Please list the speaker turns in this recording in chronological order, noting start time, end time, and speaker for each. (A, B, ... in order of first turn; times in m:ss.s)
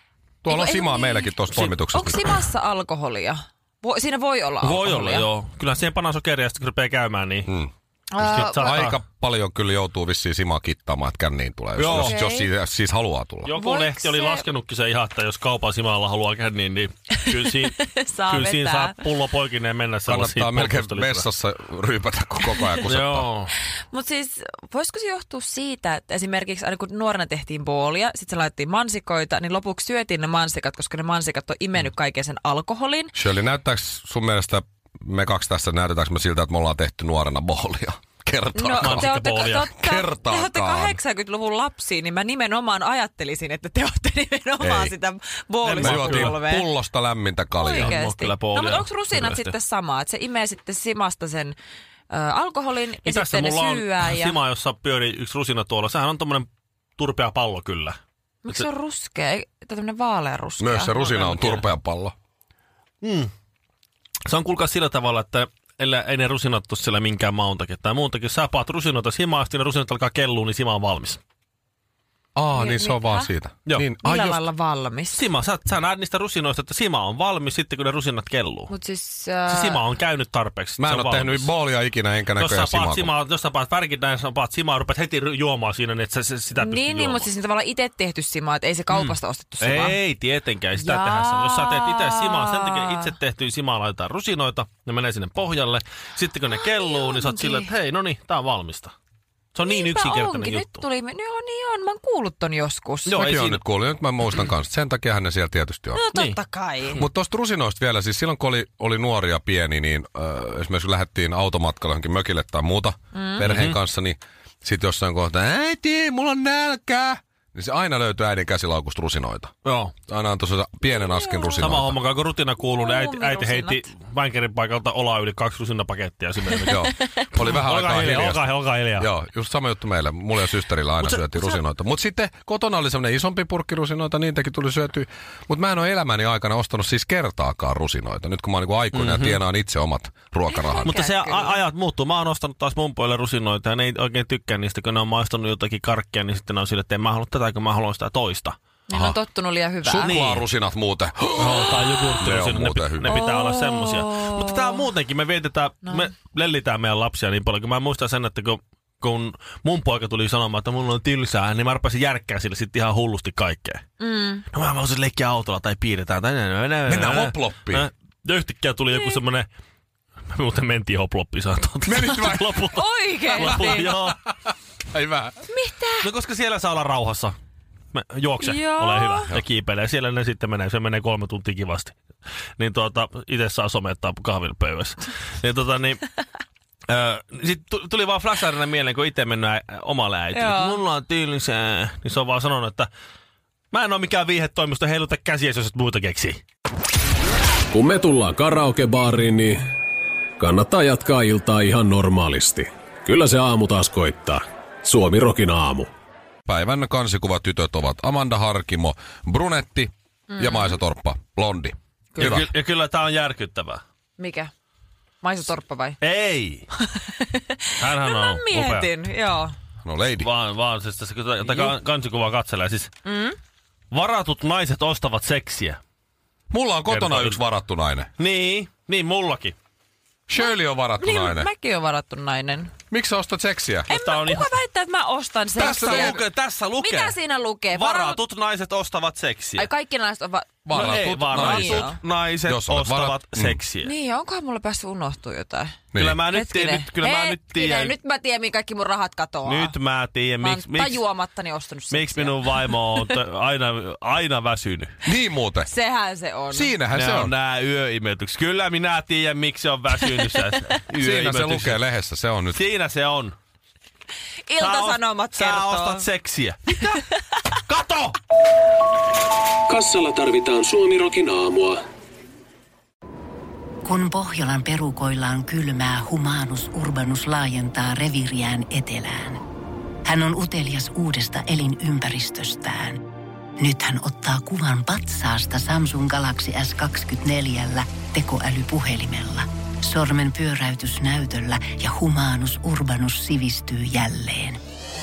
0:00.4-0:02.4 A
0:00.5-0:01.3 B
0:01.9-0:05.2 B
0:04.6-0:07.5 C
0:07.5-0:13.5 A
0:08.1-0:08.5 B
0:08.2-0:09.0 C
0:11.8-0:12.2 C
0:12.0-0:12.4 B
0:13.4-0:21.2 C
0:13.6-0:14.4 B
0:17.1-0:19.0 B
0:20.1-0:23.3 A
0:22.8-0:23.5 C
0:23.9-0:33.1 B
0:33.1-0:41.0 A
0:38.5-0:46.6 B
0:38.8-0:39.7 C
0:44.6-0:45.0 A
0:45.6-0:46.3 C
0:45.8-0:48.0 A
0:47.6-0:51.6 B
0:47.7-0:49.5 C
0:52.1-0:54.4 B
0:53.0-0:58.0 C
0:58.4-1:01.0 B
1:00.6-1:02.1 A
1:01.0-1:01.6 C
1:03.0-1:03.3 C
1:04.3-1:11.2 C
1:12.3-1:14.4 A
1:12.5-1:13.2 B
1:14.0-1:15.2 B
1:15.1-1:18.7 C
1:18.7-1:19.8 B
1:19.4-1:21.5 C
1:20.8-1:23.1 A
1:22.4-1:27.3 C
1:26.6-1:30.0 B
1:28.9-1:38.9 C
1:30.7-1:33.0 B
1:36.8-1:37.6 B
1:39.5-1:40.8 C
1:39.6-1:43.1 B
1:43.0-1:43.6 C
1:43.1-1:46.0 A
1:46.0-1:46.9 B
1:46.1-1:46.4 C
1:46.9-1:59.5 A
1:53.4-1:53.8 C
1:59.6-1:59.9 C
2:00.1-2:02.0 A
2:01.2-2:01.5 B
2:01.6-2:09.1 C
2:02.6-2:03.8 B
2:06.7-2:08.4 A
2:09.0-2:20.9 A
2:11.0-2:11.6 C
2:18.9-2:19.4 C
2:20.5-2:21.4 B
2:20.8-2:28.6 C
2:28.9-2:30.1 B
2:28.9-2:29.2 A
2:29.8-2:33.2 A
2:30.0-2:30.4 C
2:31.4-2:43.8 C
2:33.3-2:34.3 B
2:44.0-2:44.4 B
2:44.5-2:49.5 C
2:46.8-2:47.9 A
2:50.3-2:54.2 C
2:51.8-2:55.4 A
2:52.8-2:53.7 B
2:55.5-2:56.0 B
2:56.0-2:57.4 C
2:57.9-3:01.9 C
2:58.4-2:59.2 B
3:02.6-3:06.0 C
3:06.9-3:12.9 C
3:10.3-3:10.7 B
3:13.7-3:16.4 C
3:17.7-3:19.6 D
3:20.4-3:25.9 D
3:26.5-3:32.5 A
3:32.2-3:33.8 C
3:34.2-3:34.5 B
3:35.2-3:36.0 B
3:36.0-3:36.7 C
3:36.7-3:39.5 B
3:37.8-3:38.9 C
3:39.8-3:40.3 A
3:40.2-3:42.9 C
3:43.0-3:43.4 B
3:43.9-3:45.8 C
3:46.5-3:48.1 A
3:46.9-3:47.4 C
3:48.2-3:49.5 C
3:50.3-3:51.5 A
3:51.0-3:52.7 B
3:52.9-3:53.9 A
3:53.9-3:54.5 C
3:53.9-3:56.1 B
3:55.5-3:56.2 A
3:55.6-3:57.2 C
3:56.8-3:58.2 B
3:57.7-3:59.7 C
3:59.6-4:00.6 B
4:00.6-4:01.9 A
4:00.7-4:03.9 C
4:01.3-4:01.9 B
4:02.4-4:03.6 A
4:03.8-4:05.8 B
4:05.9-4:06.2 A
4:05.9-4:08.0 C
4:06.3-4:09.7 B
4:09.4-4:11.0 C
4:10.4-4:12.6 B
4:11.9-4:15.0 C
4:15.0-4:15.7 A
4:15.7-4:16.6 B
4:16.5-4:17.3 A
4:16.9-4:21.8 C
4:21.0-4:22.6 A
4:22.5-4:23.3 C
4:24.4-4:26.0 B
4:24.6-4:27.0 C
4:27.7-4:28.2 C
4:29.7-4:31.8 D
4:33.8-4:39.4 E
4:40.0-4:43.0 E
4:43.6-4:54.6 E